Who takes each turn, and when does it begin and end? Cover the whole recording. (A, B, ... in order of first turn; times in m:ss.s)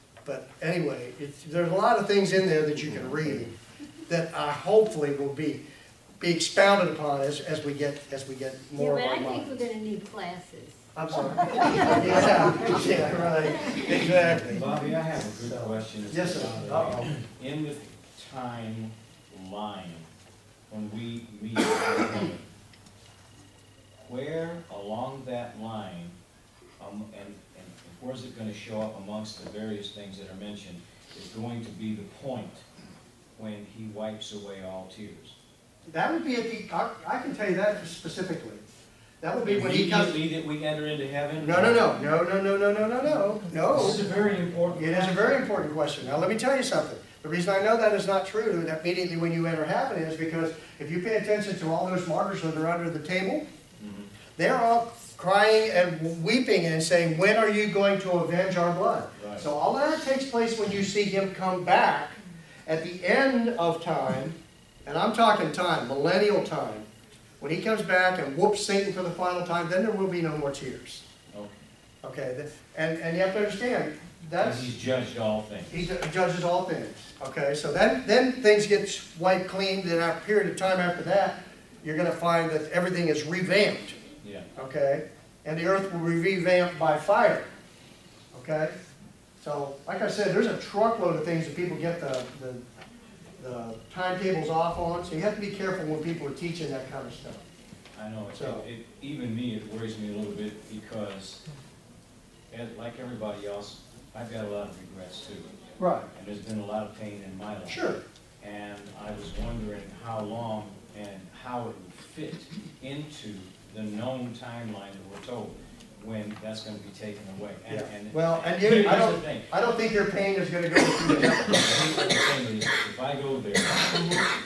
0:00.2-0:03.5 A
0:02.9-0:03.2 B
0:04.1-0:05.6 A
0:06.2-0:09.5 A
0:08.8-0:12.8 C
0:11.0-0:14.7 A
0:13.4-0:13.9 C
0:14.2-0:20.1 B
0:15.4-0:17.1 A
0:20.7-0:22.5 B
0:24.0-0:26.2 B
0:26.8-0:32.6 B
0:33.4-0:35.4 B
0:35.9-0:38.6 A
0:39.2-0:40.2 A
0:39.5-0:42.0 B
0:41.4-0:44.1 A
0:43.6-0:45.4 B
0:44.7-0:53.5 A
0:53.8-0:54.1 B
0:54.4-1:06.9 A
0:59.2-0:59.5 B
1:07.4-1:11.0 A
1:11.3-1:11.6 B
1:12.0-1:14.7 A
1:14.4-1:15.9 B
1:15.7-1:24.0 A
1:24.2-1:24.5 B
1:24.6-1:27.5 A
1:28.3-1:28.8 A
1:29.4-1:32.6 A
1:33.4-1:37.4 A
1:37.9-1:41.4 B
1:38.3-1:38.7 A
1:42.5-1:45.5 B
1:45.8-1:46.1 A
1:46.1-1:59.5 B
1:47.7-1:48.0 A
1:57.7-2:02.0 A
2:01.4-2:04.1 B
2:03.9-2:04.2 A